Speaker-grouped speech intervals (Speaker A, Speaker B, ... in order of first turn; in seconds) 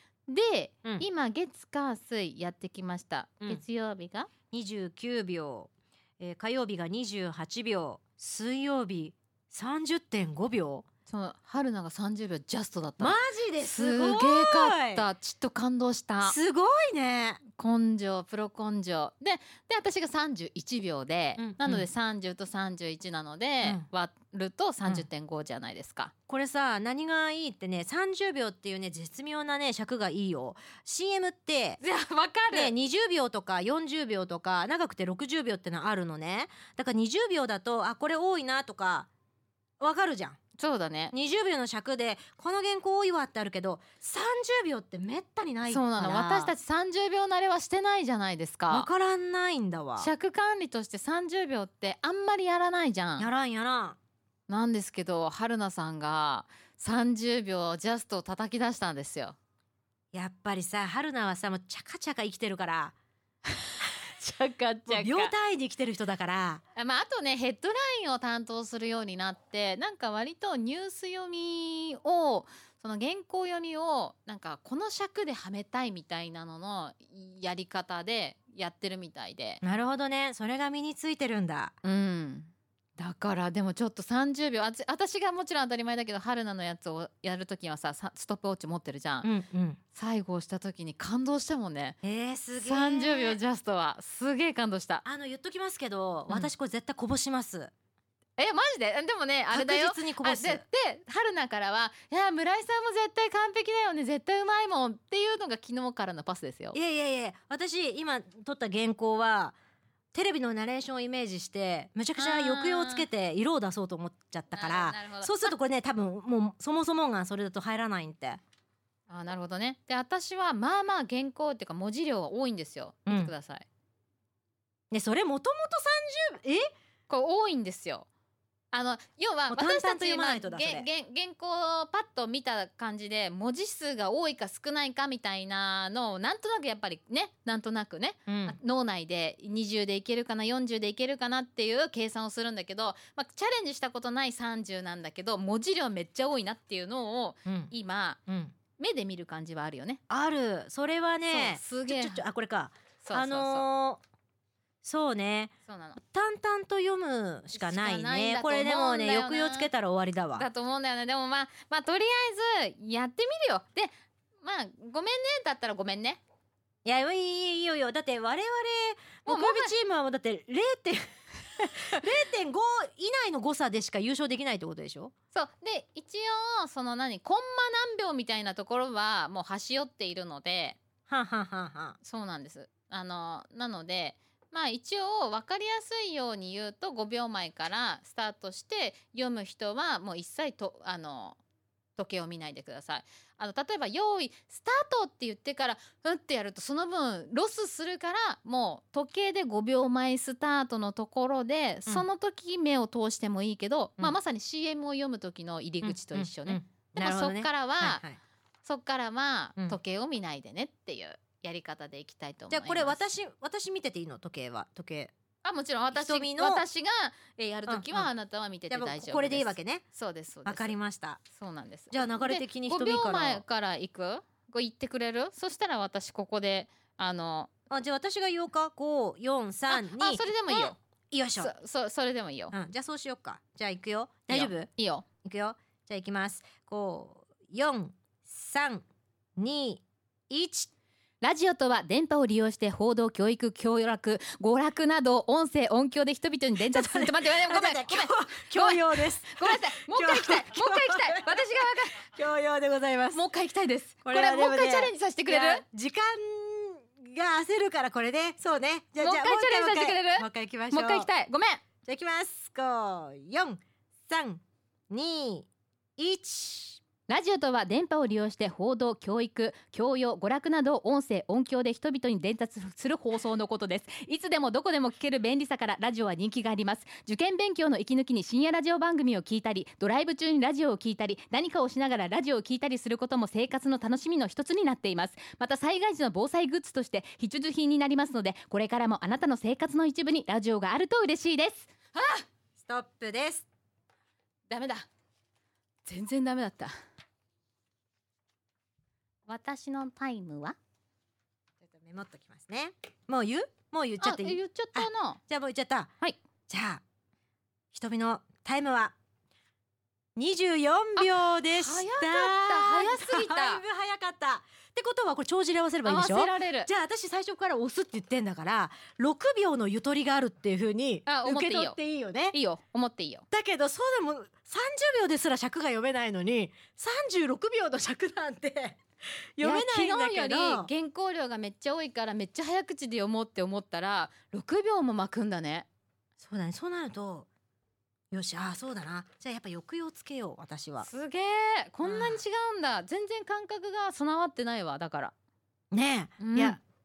Speaker A: 0.3-4.3, 11.1-16.4, 17.5-26.1, 31.8-32.7, 40.6-41.1, 45.7-48.9, 50.0-53.3, 54.5-59.4, 63.5-65.3, 66.8-79.6, 81.8-89.3, 89.9-92.0, 92.6-95.0, 98.4-106.8, 112.2-113.1, 114.5-115.5, 119.1-123.7, 127.1-128.1, 128.7-148.2, 148.8-150.0, 151.3-152.2, 153.0-153.7, 155.7-156.0, 157.5-159.7, 160.4-166.2, 169.2-169.7, 175.3-180.8, 182.0-191.4, 192.0-208.0, 208.6-213.0, 215.4-220.8, 221.3-227.5, 229.7-230.8, 231.4-232.5, 234.3-235.1, 241.2-252.1, 253.1-255.6, 259.0-261.6, 267.1-292.2, 294.5-294.9, 295.9-296.7, 299.3-300.6, 304.0-305.2, 311.0-313.6, 315.8-316.7, 321.1-321.8, 322.3-323.3, 329.4-335.7, 340.8-345.1, 346.2-346.6
Speaker B: 4.5-10.8, 13.0-15.1, 16.2-17.4, 21.4-21.9, 26.3-31.8, 32.5-39.1, 39.8-40.4, 41.1-46.5, 48.7-50.1, 53.2-54.0, 60.1-63.0, 64.9-66.6, 79.6-81.8, 89.2-89.8, 92.0-93.4, 95.0-97.7, 99.5-100.7, 106.7-109.6, 110.1-118.4, 123.1-123.3, 124.9-126.7, 129.5-130.9, 138.3-138.6, 147.5-147.7, 148.3-148.5, 150.1-154.0, 154.8-160.5, 166.8-175.1, 181.1-182.0, 205.8-208.2, 212.5-215.1, 215.9-216.7, 217.7-218.1, 218.7-219.8, 220.5-221.2, 221.9-223.4, 227.7-231.5, 232.5-234.7, 235.2-238.8, 239.4-240.7, 246.7-253.2, 254.0-261.1, 261.8-266.8, 292.6-293.5, 301.6-305.9, 306.5-306.8, 307.7-308.9, 310.2-322.4, 323.3-328.8, 329.4-330.7, 336.2-337.3, 338.1-340.9, 341.8-342.2, 345.7-346.6